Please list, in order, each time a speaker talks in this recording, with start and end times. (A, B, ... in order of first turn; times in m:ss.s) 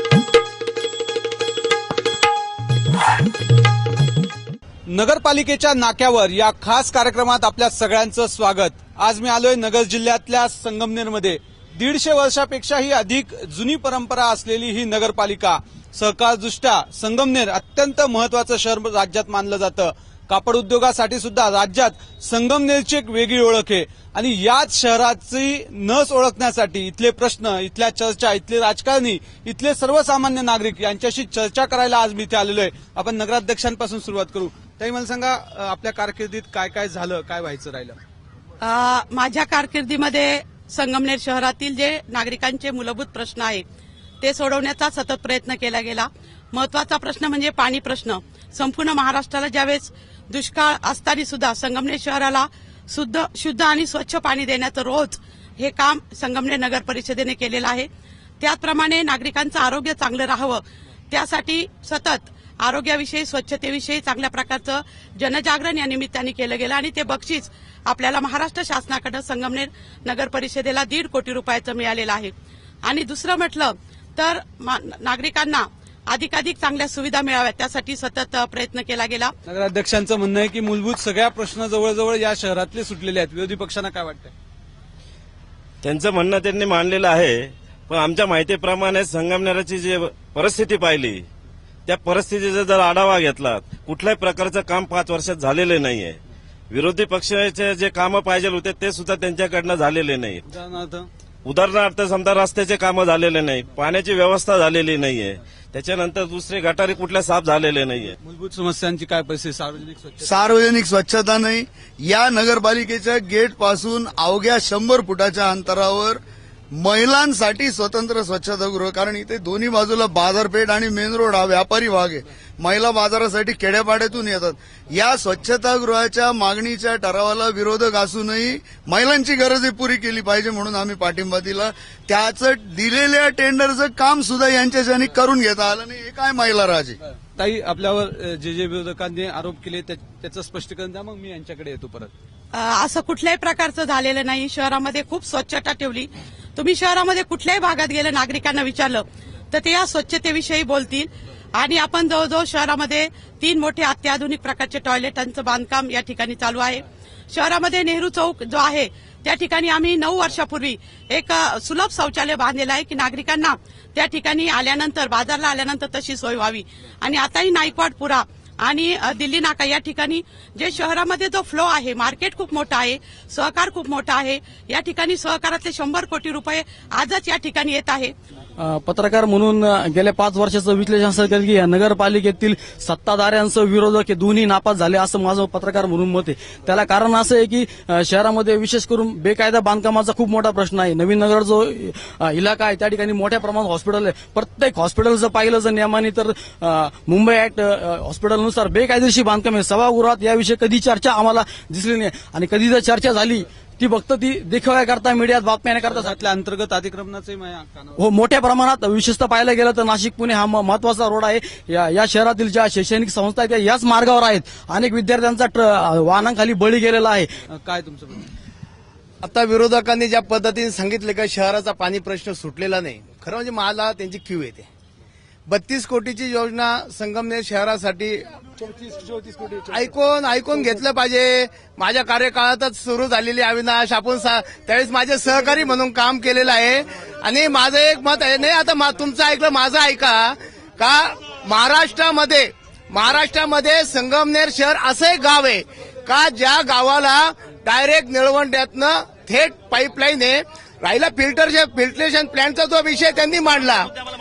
0:04.9-0:38.0 A
0:38.6-0:43.6 B
0:44.2-0:57.9 B
0:58.4-1:12.3 B
1:12.8-1:19.3 B
1:19.5-1:24.3 A
1:25.8-1:31.2 C
1:31.9-1:36.2 C
1:36.7-1:40.4 C
1:40.5-1:41.1 A
1:41.4-1:48.2 C
1:48.2-1:50.3 A
1:50.2-1:56.2 D
1:56.7-2:17.0 D
2:17.4-2:22.1 A
2:22.5-2:58.1 B
2:58.6-3:26.1 E
3:25.9-3:28.0 A
3:28.0-3:37.3 E
3:37.5-3:38.3 A
3:39.2-3:44.7 F
3:45.5-3:48.2 F
3:49.4-4:13.9 F